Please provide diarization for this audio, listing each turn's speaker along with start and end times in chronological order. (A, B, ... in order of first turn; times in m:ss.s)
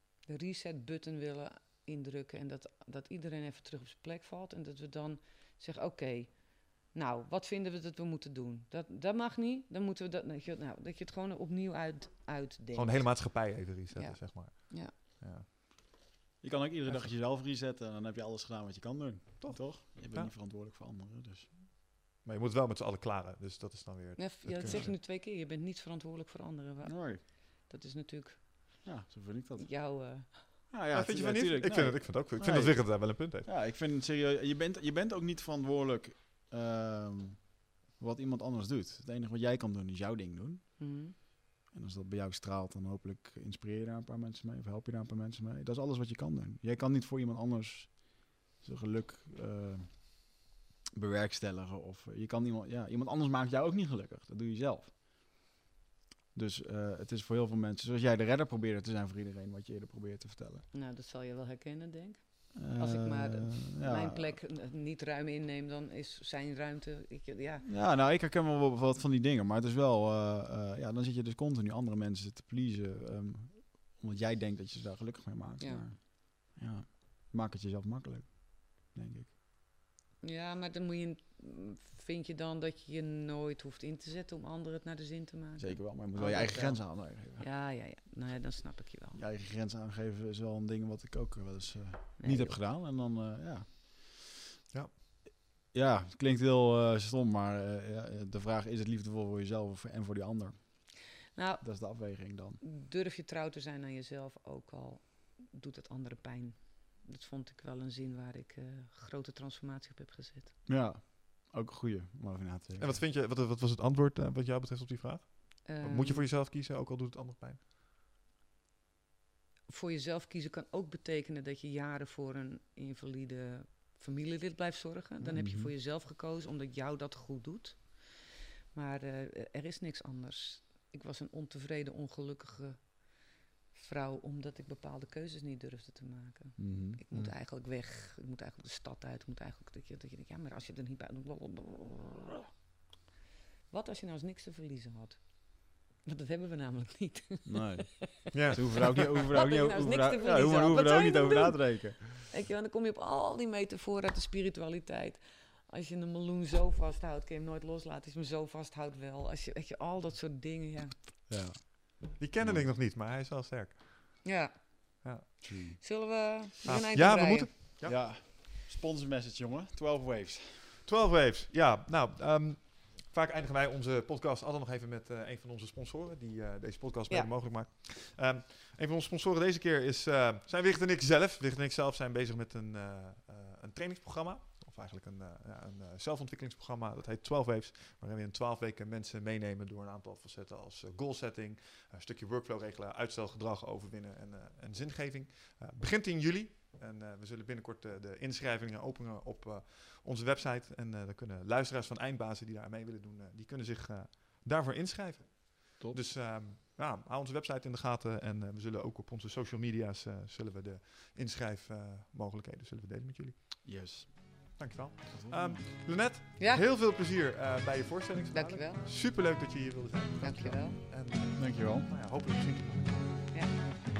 0:00.3-0:14.9 A
0:12.7-0:15.4 B
0:16.4-0:21.5 C
0:19.4-0:20.3 B
0:22.2-0:24.9 B
0:24.2-0:28.9 A
0:26.8-0:27.2 C
0:28.8-0:40.8 C
0:29.6-0:30.5 A
0:30.9-0:33.5 B
0:40.8-0:41.1 A
0:41.7-0:50.4 C
0:50.9-0:54.9 C
0:56.3-1:00.6 C
1:00.7-1:07.6 A
1:02.5-1:04.4 C
1:07.6-1:19.3 C
1:15.6-1:15.9 A
1:20.2-1:29.2 A
1:25.6-1:27.5 C
1:29.1-1:34.2 C
1:32.2-1:32.6 A
1:35.7-1:41.0 C
1:41.3-1:50.5 A
1:41.6-1:42.6 C
1:50.6-1:53.0 C
1:52.8-1:57.6 B
1:55.6-1:56.2 A
1:59.7-2:22.5 A
2:05.2-2:05.4 B
2:05.3-2:05.7 C
2:16.6-2:17.0 C
2:23.7-2:41.0 A
2:27.4-2:32.0 C
2:28.3-2:29.2 B
2:41.3-2:42.7 C
2:42.2-2:44.3 B
2:44.2-2:45.3 A
2:45.0-2:45.9 B
2:45.4-2:45.8 C
2:45.8-2:47.5 A
2:46.6-2:48.0 B
2:47.8-2:50.8 C
2:50.8-3:43.2 B
3:33.6-3:35.6 C
3:36.4-3:36.6 A
3:38.3-3:38.8 A
3:40.2-3:40.8 A
3:41.3-3:41.9 C
3:43.3-3:43.6 A